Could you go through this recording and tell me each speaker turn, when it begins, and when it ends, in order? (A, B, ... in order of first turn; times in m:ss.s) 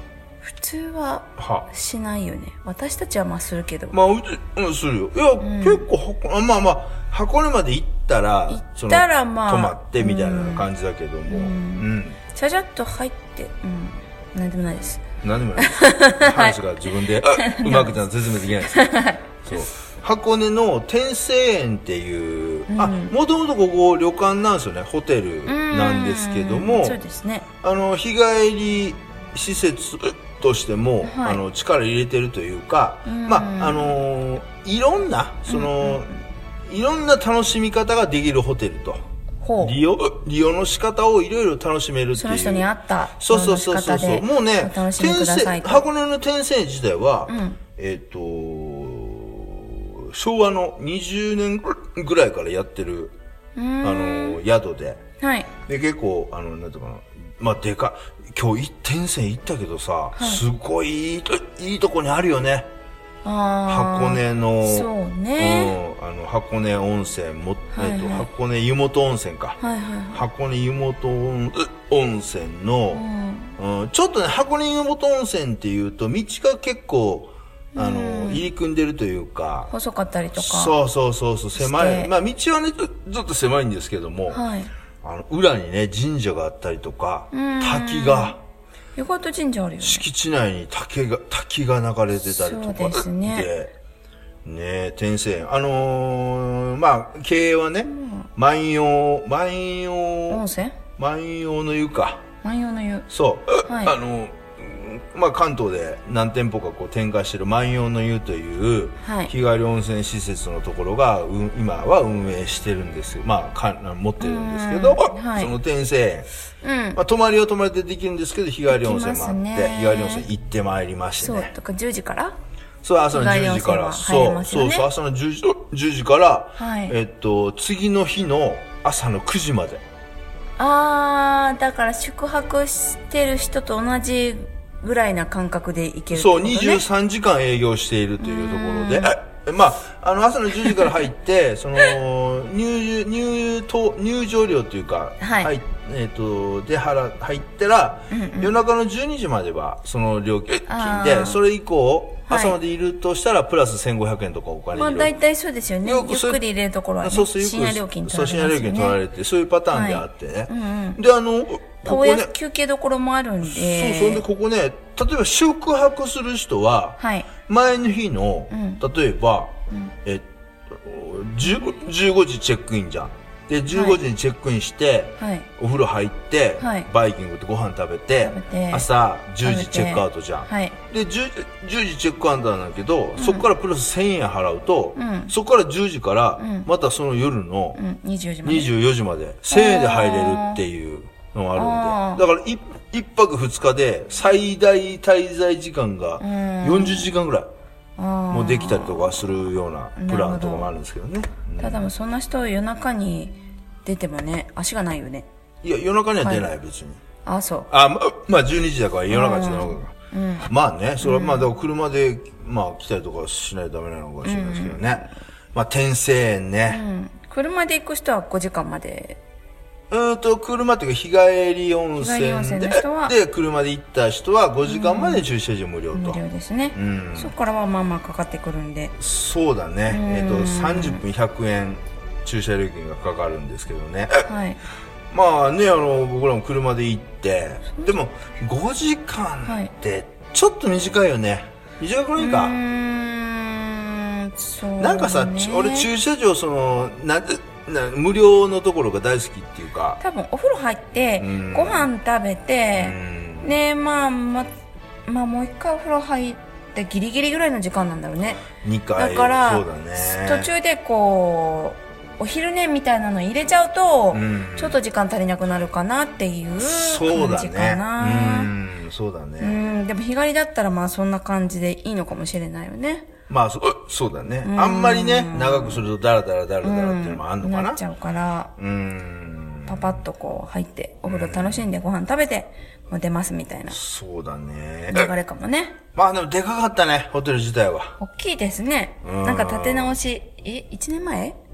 0:00.4-0:04.0 A
0:01.4-0:01.7 B
0:03.9-0:12.2 B
0:05.4-0:05.9 A
0:08.5-0:10.7 A
0:11.3-0:15.0 A
0:15.2-0:18.9 B
0:15.6-0:18.0 A
0:18.6-0:19.2 A
0:19.4-0:27.0 B
0:22.7-0:23.1 A
0:25.4-0:27.4 A
0:27.6-0:36.1 B
0:31.0-0:31.4 A
0:33.0-0:34.0 A
0:35.5-0:36.1 A
0:36.7-0:39.0 B
0:39.4-0:39.8 A
0:39.6-0:42.7 B
0:42.1-0:45.9 A
0:43.2-0:53.1 B
0:47.3-0:47.6 A
0:53.6-0:54.4 A
0:53.8-0:55.0 B
0:55.2-0:55.5 A
0:55.7-1:02.7 B
1:00.2-1:00.4 A
1:03.2-1:05.8 A
1:03.7-1:09.6 B
1:07.7-1:08.3 A
1:09.6-1:10.2 A
1:10.1-1:13.0 B
1:12.9-1:13.6 A
1:13.6-1:19.7 B
1:17.7-1:18.4 A
1:19.7-1:20.8 A
1:20.4-1:24.4 B
1:21.6-1:22.1 A
1:24.3-1:24.7 A
1:25.0-1:28.4 B
1:27.3-1:28.4 A
1:29.0-1:30.1 A
1:29.8-1:33.7 B
1:32.2-1:33.5 A
1:34.4-1:40.4 B
1:37.8-1:38.3 A
1:40.3-1:40.8 A
1:41.0-1:42.2 B
1:42.4-1:43.1 A
1:43.1-1:56.3 B
1:43.6-1:43.9 A
1:49.0-1:49.3 A
1:54.2-1:55.5 A
1:56.6-1:57.0 A
1:56.9-2:01.5 B
1:58.7-2:00.3 A
2:01.2-2:02.4 A
2:02.8-2:09.8 B
2:03.1-2:04.9 A
2:06.6-2:06.9 A
2:10.6-2:16.8 A
2:16.1-2:35.1 B
2:18.2-2:19.1 A
2:25.2-2:25.5 A
2:28.1-2:28.5 A
2:30.6-2:31.4 A
2:32.3-2:32.6 A
2:34.7-2:39.0 A
2:35.8-2:36.4 B
2:37.0-2:42.3 B
2:39.7-2:41.0 A
2:41.8-2:44.2 A
2:43.4-3:07.8 B
2:47.0-2:47.3 A
2:48.5-2:48.8 A
2:53.7-2:54.0 A
2:55.2-2:55.5 A
2:56.6-2:56.9 A
2:58.2-2:58.9 A
2:59.4-3:00.8 A
3:03.2-3:03.5 A
3:05.0-3:05.3 A
3:06.4-3:06.7 A
3:07.7-3:08.7 A
3:08.4-3:17.5 B
3:09.5-3:10.6 A
3:11.6-3:12.2 A
3:16.2-3:17.1 A
3:18.0-3:19.2 A
3:18.3-3:21.8 B
3:20.0-3:20.7 A
3:21.6-3:25.2 A
3:25.6-3:27.0 B
3:26.2-3:26.5 A
3:27.2-3:27.7 A
3:27.7-3:29.9 B
3:29.1-3:30.5 A
3:30.4-3:36.8 B
3:31.0-3:31.5 A
3:34.2-3:35.1 A
3:36.7-3:39.2 A
3:39.9-3:46.2 B
3:42.0-3:43.2 A
3:44.6-3:45.2 A
3:45.9-3:48.9 A
3:46.7-3:47.3 B
3:49.0-3:54.2 B
3:49.9-3:51.0 A
3:54.2-3:54.6 A
3:55.1-4:02.6 B
3:59.4-3:59.7 A
4:02.2-4:05.9 A
4:04.8-4:10.0 B
4:10.0-4:14.5 A
4:11.2-4:11.9 B
4:12.8-4:13.6 B
4:15.1-4:18.4 A
4:18.5-4:20.5 B
4:19.0-4:28.5 A
4:24.1-4:24.8 B
4:26.6-4:29.6 B
4:29.4-4:33.1 A
4:33.3-4:37.8 B
4:34.4-4:35.8 A
4:36.6-4:38.5 A
4:38.6-4:40.0 B
4:39.7-4:43.8 A
4:41.0-4:41.7 B
4:43.7-4:45.1 B
4:44.9-4:45.8 A
4:45.9-4:48.0 B
4:48.0-4:51.4 A
4:49.0-4:50.0 B